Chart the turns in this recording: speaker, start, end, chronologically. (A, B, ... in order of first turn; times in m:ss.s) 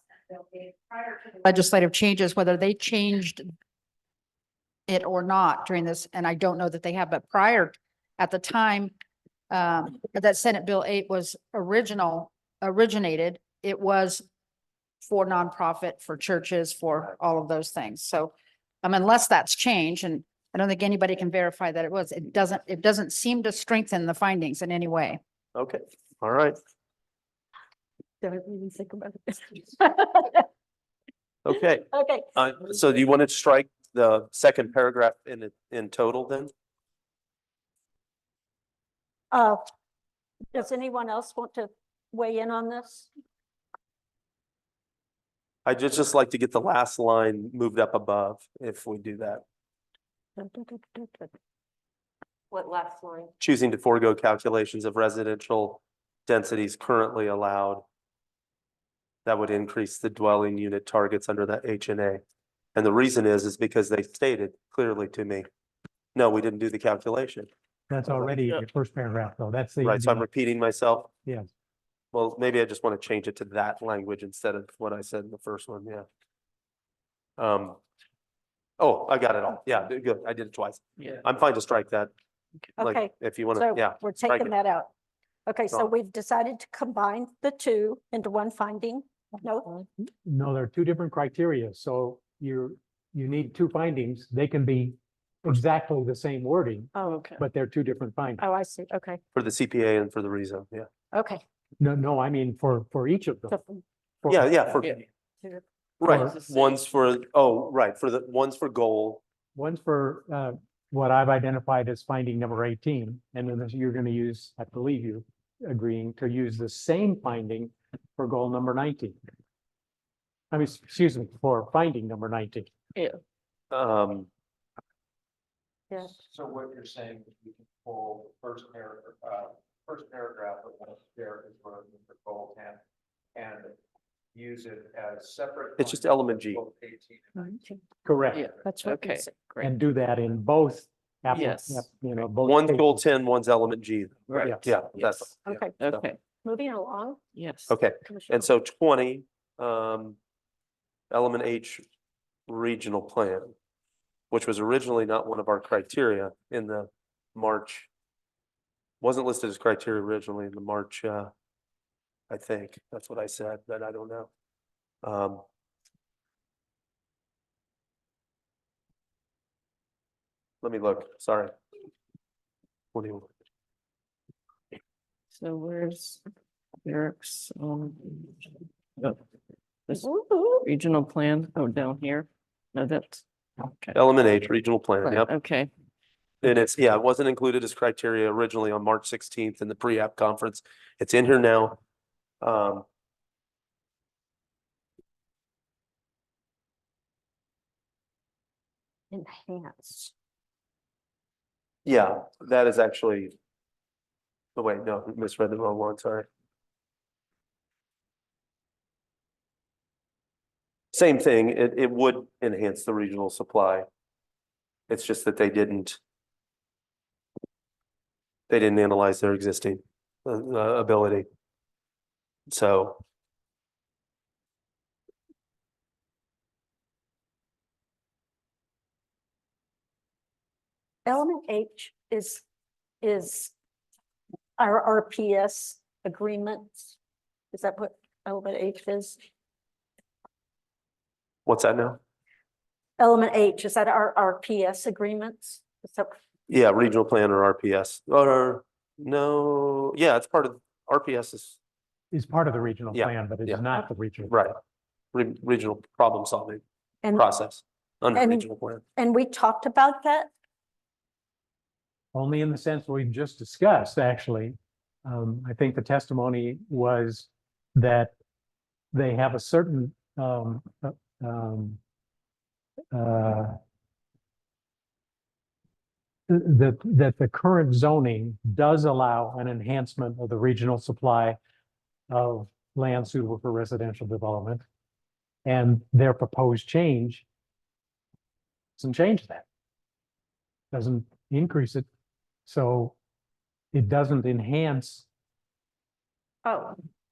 0:01.2-0:03.5 A
0:04.9-0:08.9 A
0:09.5-0:14.2 A
0:15.0-0:25.2 A
0:25.6-0:26.6 B
0:28.2-0:30.5 C
0:31.5-0:36.5 B
0:31.9-0:32.3 C
0:39.3-0:39.6 C
0:40.5-0:43.1 C
0:45.7-0:49.4 B
0:50.4-0:51.3 C
0:52.5-0:53.3 C
0:53.4-0:57.8 B
0:59.3-1:02.2 B
1:02.8-1:05.5 B
1:06.2-1:07.5 B
1:07.9-1:10.3 D
1:08.0-1:08.3 B
1:09.8-1:11.1 B
1:12.1-1:16.1 B
1:17.4-1:17.8 B
1:18.8-1:22.1 B
1:22.8-1:24.5 B
1:22.8-1:24.9 C
1:25.5-1:29.8 C
1:30.1-1:38.4 D
1:37.0-1:37.4 E
1:38.4-1:39.2 C
1:39.3-1:40.9 B
1:41.1-1:41.4 C
1:41.8-1:43.6 D
1:43.5-1:43.8 C
1:44.2-1:45.0 D
1:44.3-1:44.8 B
1:46.0-1:49.2 B
1:46.0-1:46.3 D
1:46.1-1:46.8 E
1:49.6-1:59.2 D
2:00.5-2:02.7 D
2:03.7-2:04.3 B
2:05.9-2:06.2 C
2:06.2-2:12.8 F
2:13.4-2:13.8 F
2:14.3-2:17.6 F
2:15.8-2:16.6 B
2:17.4-2:17.8 C
2:18.0-2:18.5 D
2:18.3-2:19.8 E
2:18.7-2:19.3 C
2:19.6-2:23.0 D
2:21.3-2:21.9 E
2:22.4-2:26.1 B
2:24.3-2:26.2 E
2:24.4-2:24.7 D
2:25.5-2:25.7 C
2:26.4-2:27.2 C
2:27.4-2:27.8 E
2:27.7-2:30.2 B
2:28.1-2:28.5 C
2:31.1-2:31.8 B
2:32.5-2:33.5 B
2:34.3-2:37.9 B
2:39.0-2:41.3 B
2:42.3-2:44.3 B
2:45.0-2:45.4 B
2:50.6-2:51.5 B
2:52.9-2:53.3 B
2:55.3-2:56.2 E
2:56.8-2:59.2 E
2:59.9-3:00.7 C
3:00.6-3:04.0 E
3:04.0-3:05.3 B
3:05.0-3:05.7 E
3:06.4-3:11.8 B
3:12.4-3:12.8 B
3:19.1-3:20.1 C
3:21.8-3:23.3 B
3:24.6-3:26.3 B
3:30.9-3:33.9 B
3:34.9-3:36.0 B
3:38.5-3:41.3 B
3:42.5-3:43.0 B
3:51.0-3:52.4 C
3:53.0-3:53.5 C
3:54.6-3:57.0 C
3:57.5-3:59.2 C
4:01.5-4:02.0 B
4:03.0-4:06.2 C
4:06.5-4:11.6 B
4:12.1-4:14.4 D
4:12.9-4:13.6 B
4:14.3-4:14.6 B
4:15.1-4:16.6 B
4:17.1-4:18.8 B
4:18.1-4:20.3 C
4:22.1-4:28.1 D
4:28.9-4:31.8 D
4:32.9-4:33.6 D
4:36.3-4:41.4 D
4:42.1-4:44.6 D
4:45.4-4:47.2 D
4:48.8-4:49.5 D
4:50.7-4:51.9 D
4:52.5-4:53.0 D
4:53.7-4:55.1 D
4:56.4-4:56.8 C